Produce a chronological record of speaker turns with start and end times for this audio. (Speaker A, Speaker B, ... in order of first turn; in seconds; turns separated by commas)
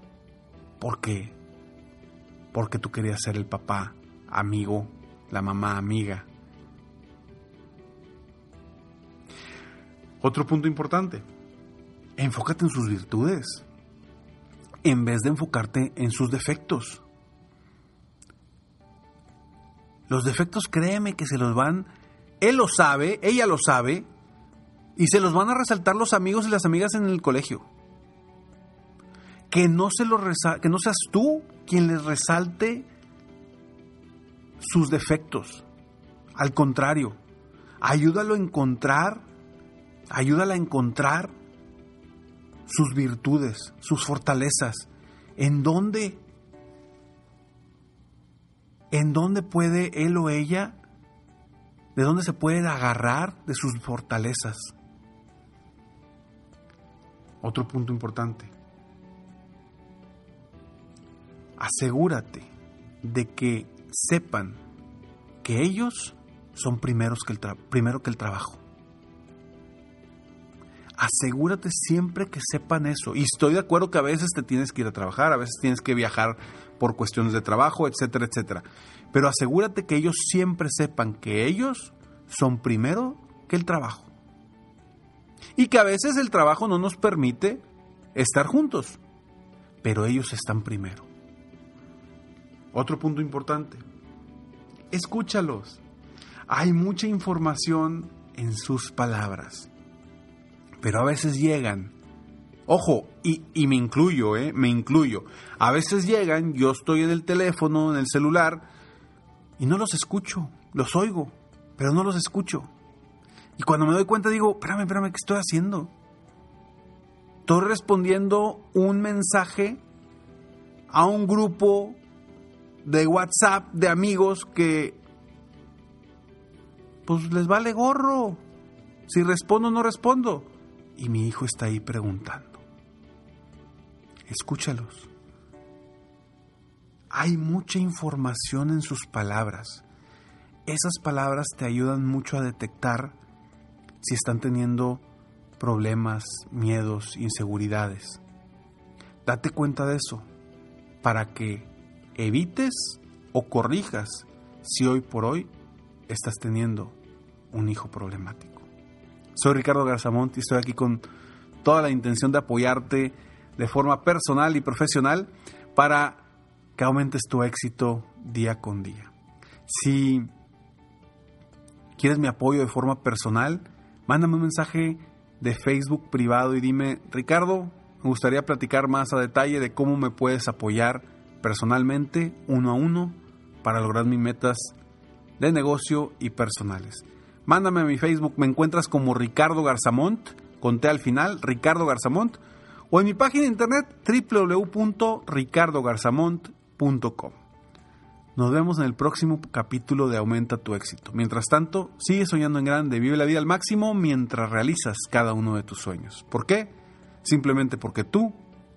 Speaker A: 0.8-1.3, Speaker A: 2.5-6.2, Speaker A: 10.2-11.2, Speaker A: 12.2-13.6, Speaker A: 14.8-17.0, Speaker A: 20.1-21.9, Speaker A: 22.4-24.1, Speaker A: 24.9-27.6, Speaker A: 29.5-32.9, Speaker A: 34.6-35.6, Speaker A: 36.4-37.2, Speaker A: 37.8-39.2, Speaker A: 40.1-41.3, Speaker A: 42.6-46.2, Speaker A: 48.9-50.8, Speaker A: 51.9-54.7, Speaker A: 57.4-58.5, Speaker A: 61.6-62.5, Speaker A: 63.0-64.6, Speaker A: 65.4-68.6, Speaker A: 71.0-84.1, Speaker A: 85.5-87.6, Speaker A: 88.1-89.0, Speaker A: 89.8-91.1, Speaker A: 92.7-93.8, Speaker A: 94.9-95.8, Speaker A: 96.5-99.7, Speaker A: 100.8-101.9, Speaker A: 102.7-108.7, Speaker A: 109.6-112.7, Speaker A: 113.6-115.9, Speaker A: 117.5-119.8, Speaker A: 120.9-122.0, Speaker A: 122.8-125.0, Speaker A: 127.1-128.4, Speaker A: 129.1-132.6, Speaker A: 134.3-135.1, Speaker A: 137.1-139.8, Speaker A: 140.7-143.2, Speaker A: 144.0-145.0, Speaker A: 145.6-148.2, Speaker A: 149.2-150.3, Speaker A: 151.0-155.5, Speaker A: 156.1-156.9, Speaker A: 157.5-158.7, Speaker A: 159.3-161.0, Speaker A: 161.6-166.2, Speaker A: 166.8-169.1, Speaker A: 169.7-170.3, Speaker A: 172.0-184.7, Speaker A: 185.4-197.4, Speaker A: 198.3-208.4